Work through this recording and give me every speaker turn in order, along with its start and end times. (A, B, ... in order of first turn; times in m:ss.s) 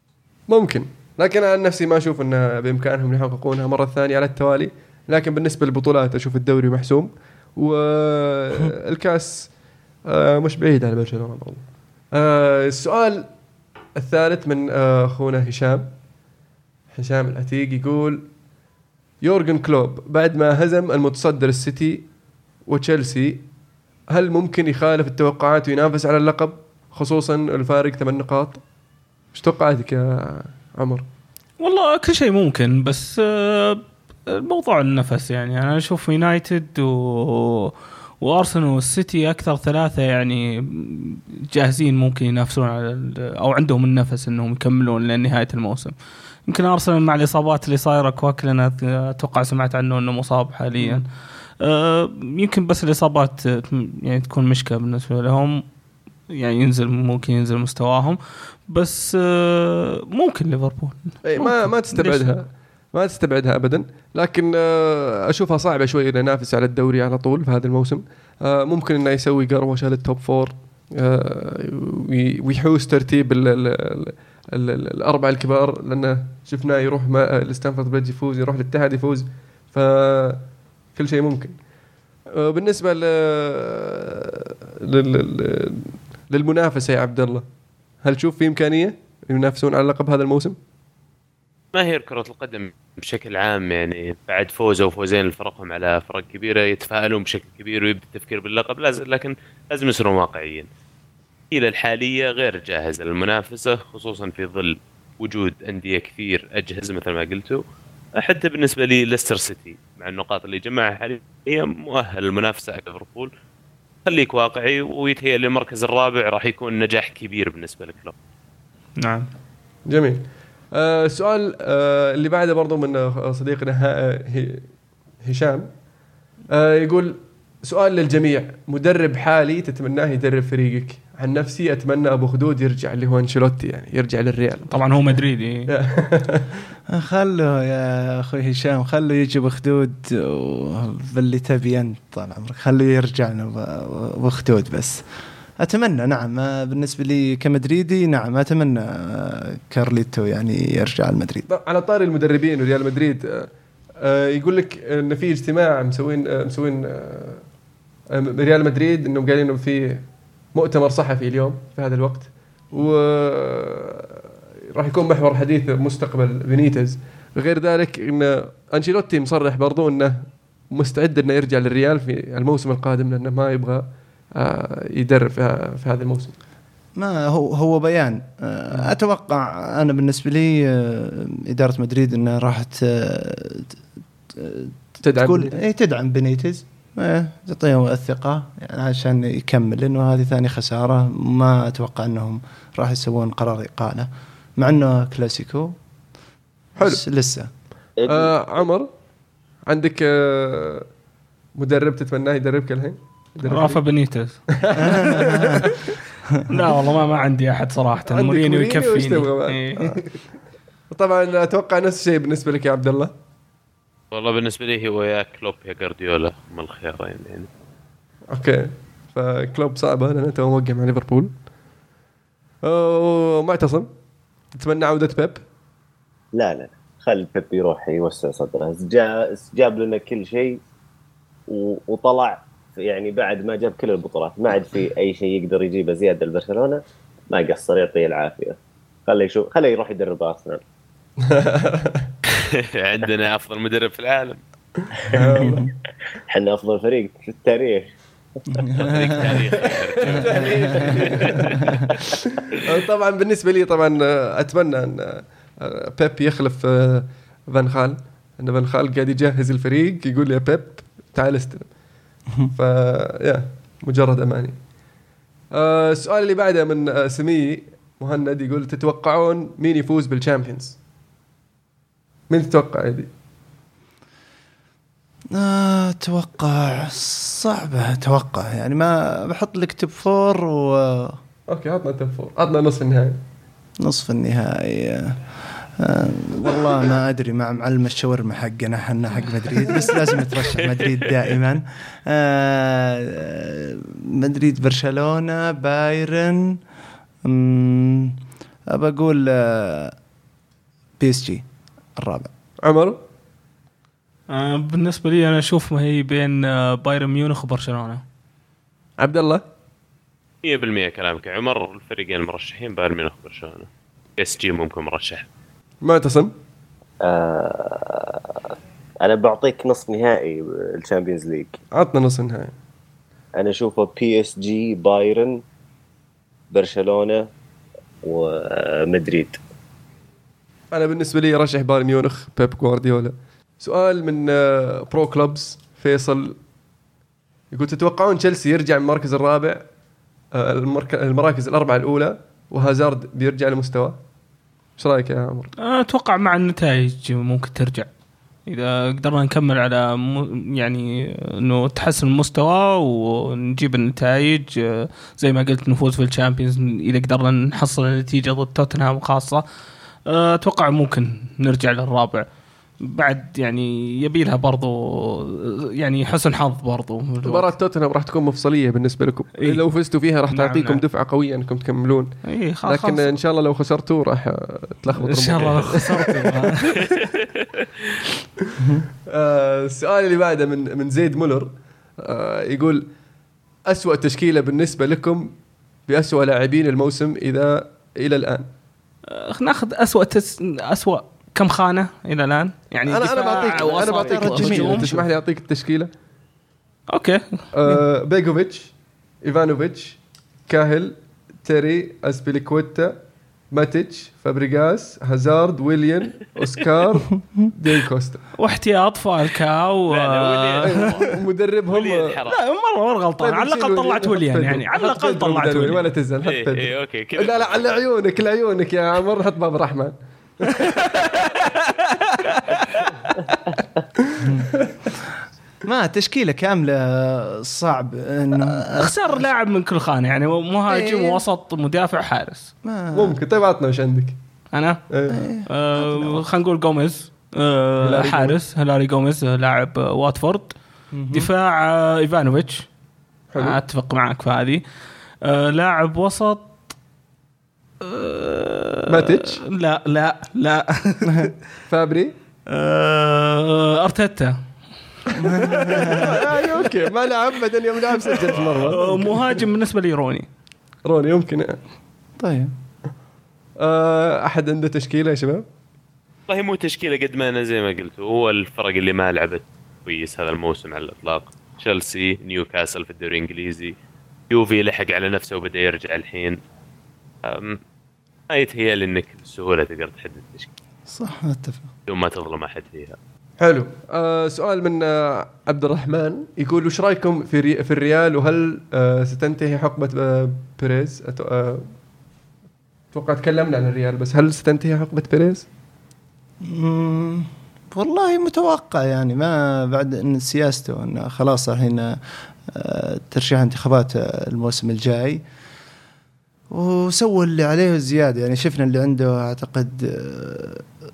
0:00.5-0:09.5 A
0:10.1-0:13.3 A
0:14.0-0:15.9 A
0:16.9-0:18.3 A
0:19.2-0:22.1 A
0:22.7-0:23.4 A
0:24.1-0:28.6 A
0:29.3-0:31.1 A
0:31.6-0:45.9 B
0:46.4-0:51.1 B
0:51.6-0:55.6 B
0:56.3-1:02.4 B
1:01.2-1:21.6 A
1:22.3-1:27.4 A
1:28.0-1:30.6 A
1:31.7-1:40.7 C
1:41.5-1:47.6 C
1:48.2-1:53.3 C
1:54.1-1:58.1 C
1:59.0-1:59.3 B
1:59.9-2:04.7 A
2:05.2-2:05.7 A
2:06.5-2:14.8 A
2:14.7-2:15.7 B
2:15.7-2:16.5 A
2:16.9-2:25.0 D
2:25.6-2:31.4 D
2:31.5-2:37.4 A
2:38.1-2:44.2 A
2:44.7-2:56.4 A
2:57.0-3:03.8 D
3:04.3-3:15.8 D
3:05.0-3:05.5 A
3:16.8-3:17.0 A
3:16.8-3:17.5 D
3:18.0-3:18.3 E
3:18.1-3:18.9 A
3:19.7-3:20.9 A
3:21.6-3:23.8 A
3:23.4-3:25.7 B
3:24.6-3:26.0 A
3:24.8-3:25.7 D
3:26.5-3:30.0 B
3:28.1-3:30.2 A
3:30.9-3:33.1 A
3:34.1-3:37.5 C
3:38.3-3:41.3 A
3:42.6-3:43.9 A
3:44.5-3:45.4 A
3:46.4-3:50.6 E
3:51.5-4:00.6 E
4:01.2-4:02.1 A
4:02.3-4:04.4 C
4:04.8-4:05.6 A
4:05.2-4:05.7 D
4:06.3-4:08.7 E
4:08.5-4:09.4 D
4:08.8-4:12.0 C
4:09.6-4:11.6 A
4:10.2-4:11.8 D
4:12.2-4:21.7 A
4:22.5-4:24.6 A
4:25.5-4:30.8 A
4:32.3-4:33.1 A
4:35.3-4:41.2 D
4:41.5-4:43.2 A
4:43.8-4:56.6 D
4:57.2-4:58.2 D
4:58.7-4:59.9 D
5:01.0-5:01.4 D
5:02.0-5:02.3 D
5:02.6-5:03.0 A
5:04.3-5:08.0 B
5:09.0-5:09.4 A
5:10.4-5:15.3 C
5:15.8-5:16.3 A
5:17.0-5:18.3 E
5:19.0-5:21.6 E
5:21.7-5:22.5 A
5:23.4-5:25.4 E
5:26.5-5:27.3 E
5:28.0-5:29.4 E
5:30.7-5:36.4 A
5:37.5-5:39.6 A
5:40.3-5:44.0 A
5:44.8-5:45.5 A
5:45.6-5:47.9 B
5:48.5-5:59.4 B
6:00.1-6:02.3 B
6:02.8-6:07.5 B
6:07.2-6:12.1 A
6:10.3-6:10.8 B
6:12.3-6:13.1 B
6:12.7-6:16.5 A
6:14.9-6:17.0 B
6:16.8-6:17.2 C
6:19.1-6:22.8 A
6:23.7-6:25.3 A
6:25.9-6:28.5 A
6:29.1-6:34.9 B
6:32.9-6:35.9 A
6:33.6-6:35.1 D
6:36.9-6:37.4 B
6:37.5-6:43.0 A
6:43.5-6:48.3 A
6:48.4-6:51.0 B
6:49.9-6:51.1 C
6:50.6-6:52.2 A
6:51.7-6:52.4 C
6:52.3-6:55.9 B
6:53.2-7:00.7 A
6:56.2-6:57.8 C
7:00.5-7:03.3 B
7:04.0-7:04.9 A
7:04.2-7:09.3 D
7:08.4-7:12.5 B
7:10.7-7:11.2 D
7:12.6-7:13.2 D
7:12.9-7:14.2 A
7:14.5-7:14.8 B
7:14.9-7:15.2 A
7:15.1-7:16.2 D
7:15.4-7:20.6 B
7:17.8-7:18.4 A
7:20.9-7:21.3 D
7:21.1-7:22.7 B
7:23.3-7:23.6 A
7:23.4-7:24.6 B
7:25.2-7:26.6 B
7:27.8-7:31.3 B
7:28.9-7:29.4 A
7:31.1-7:31.3 D
7:31.7-7:32.1 A
7:32.5-7:34.4 B
7:35.2-7:39.4 A
7:35.2-7:36.2 D
7:35.2-7:36.4 B
7:38.0-7:40.3 B
7:40.8-7:41.6 A
7:42.2-7:42.5 D
7:43.6-7:45.4 A
7:46.3-7:53.7 C
7:54.3-7:56.4 C
7:57.2-7:57.6 C
7:58.3-8:00.5 C
8:00.9-8:01.7 D
8:01.9-8:03.0 C
8:03.4-8:11.7 A
8:12.9-8:15.4 A
8:16.4-8:25.2 D
8:26.5-8:30.7 D